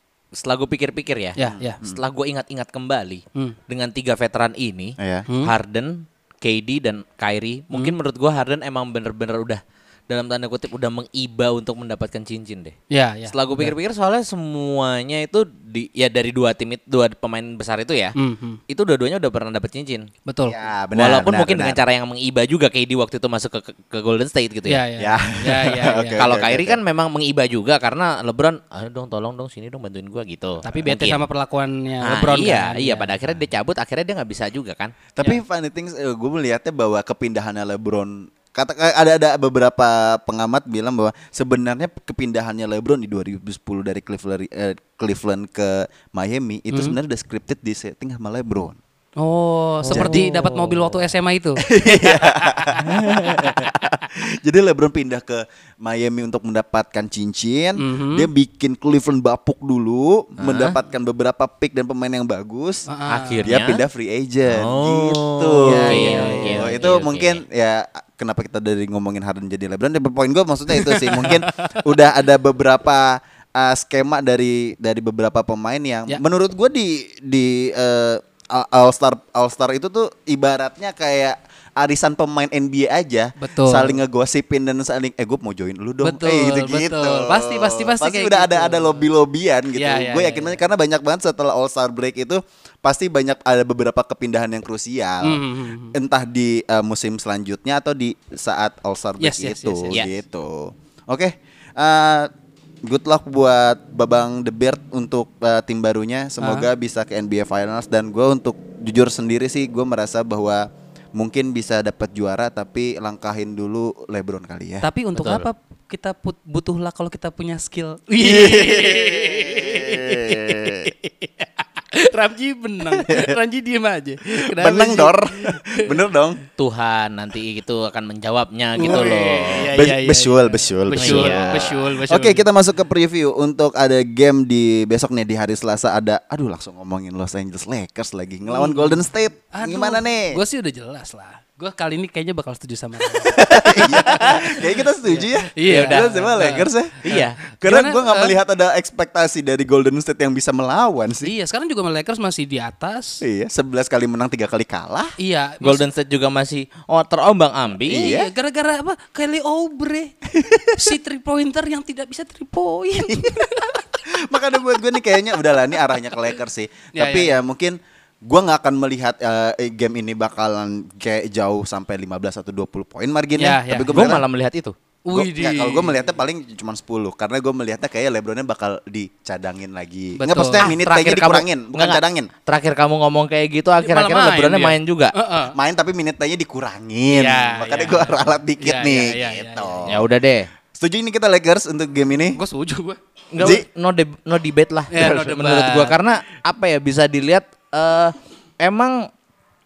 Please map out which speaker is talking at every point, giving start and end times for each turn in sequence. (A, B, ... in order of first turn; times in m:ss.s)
0:00.3-0:12.8 A
0:01.4-0:01.8 B
0:01.4-0:02.0 C
0:05.0-0:05.3 C
0:12.9-0:13.8 B
0:13.3-0:18.2 A
0:18.2-0:18.6 B
0:18.7-0:20.1 A
0:20.3-0:20.6 B
0:20.4-0:21.8 C
0:21.0-0:24.8 A
0:24.7-0:26.2 B
0:25.0-0:26.8 C
0:26.2-0:31.2 A
0:30.6-0:33.2 B
0:32.0-0:35.0 A
0:35.2-0:48.8 C
0:46.7-0:47.0 B
0:49.2-0:53.7 B
0:49.8-0:50.9 A
0:49.9-0:50.3 C
0:51.6-1:02.9 C
0:57.8-0:58.3 B
1:00.4-1:00.7 A
1:02.9-1:03.5 B
1:03.1-1:03.8 A
1:03.4-1:42.3 C
1:04.5-1:07.4 A
1:05.6-1:06.8 B
1:10.8-1:11.8 B
1:23.4-1:24.0 B
1:26.0-1:29.0 B
1:29.8-1:30.6 B
1:35.2-1:36.0 B
1:39.2-1:40.0 B
1:42.8-1:54.9 C
1:46.4-1:46.7 B
1:54.8-2:06.0 B
1:55.2-1:55.5 A
1:58.2-2:00.9 C
2:03.0-2:03.3 C
2:04.5-2:06.4 C
2:06.6-2:09.7 A
2:08.8-2:20.4 C
2:08.8-2:12.4 B
2:10.9-2:11.8 A
2:18.5-2:28.3 B
2:23.2-2:31.3 C
2:25.7-2:26.2 A
2:27.0-2:27.4 A
2:31.2-2:33.2 B
2:33.2-2:35.1 C
2:35.2-2:35.8 B
2:35.6-2:38.2 A
2:37.9-2:38.3 C
2:37.9-2:40.2 B
2:40.3-2:40.9 C
2:40.7-2:43.8 B
2:43.1-2:43.4 C
2:44.1-2:54.2 C
2:46.9-2:47.4 B
2:53.4-2:54.1 B
2:53.9-2:54.8 A
2:55.1-2:56.0 B
2:55.1-3:02.3 C
3:00.2-3:00.7 B
3:00.6-3:05.2 A
3:03.8-3:05.6 B
3:05.5-3:10.1 C
3:07.1-3:09.9 B
3:09.9-3:10.5 A
3:10.8-3:12.4 C
3:12.3-3:13.0 B
3:13.3-3:19.1 A
3:13.4-3:13.7 C
3:14.9-3:16.0 B